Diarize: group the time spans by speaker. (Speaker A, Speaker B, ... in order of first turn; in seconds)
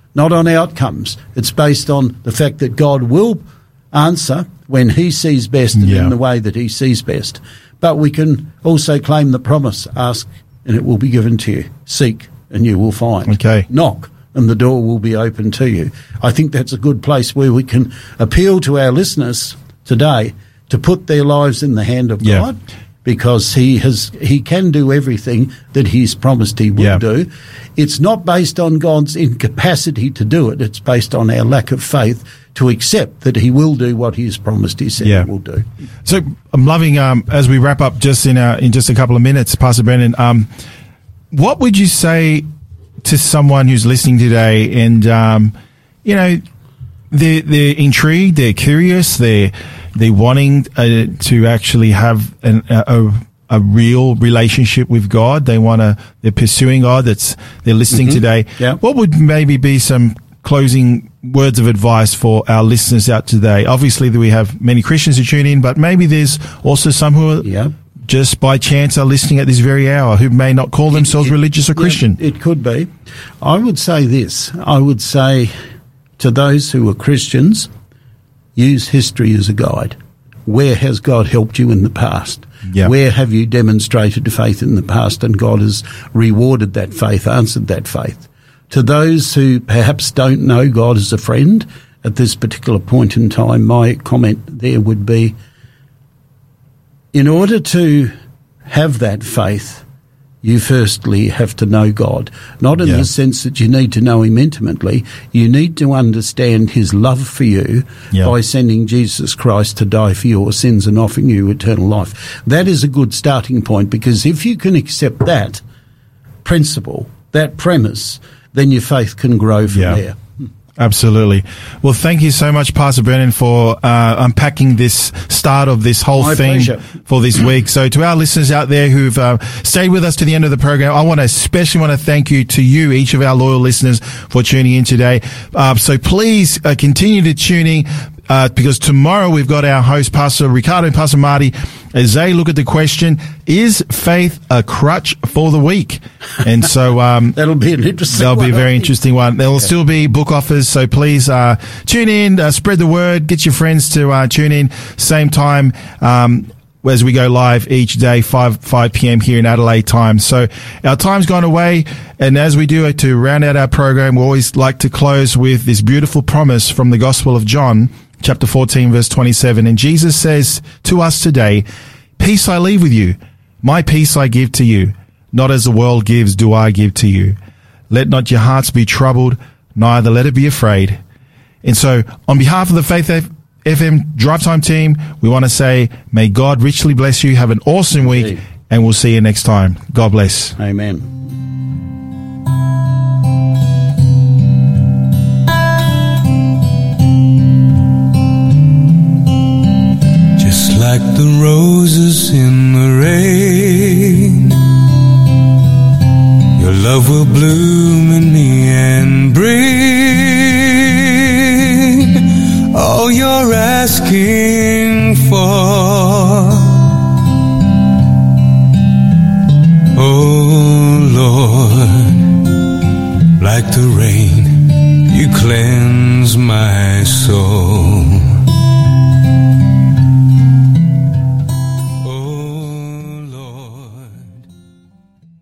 Speaker A: 0.1-35.7, 57.9-58.8, 67.4-67.7, 70.9-72.9, 73.4-75.5, 76.2-77.7, 78.6-95.3, 97.1-98.1, 98.7-99.8, 100.4-115.6, 116.4-120.2, 126.2-126.8, 147.3-148.9, 188.1-188.4, 190.6-191.1
Speaker B: 5.8-6.1, 13.3-13.7, 35.0-35.3, 36.0-40.5, 41.3-42.5, 43.0-46.4, 47.1-67.5, 68.1-72.2, 119.7-120.0, 120.8-147.4, 148.1-171.7, 172.2-177.4, 177.9-181.0, 181.6-190.6
Speaker C: 200.4-204.6, 206.6-216.9, 219.9-222.4, 223.4-228.4, 232.0-234.4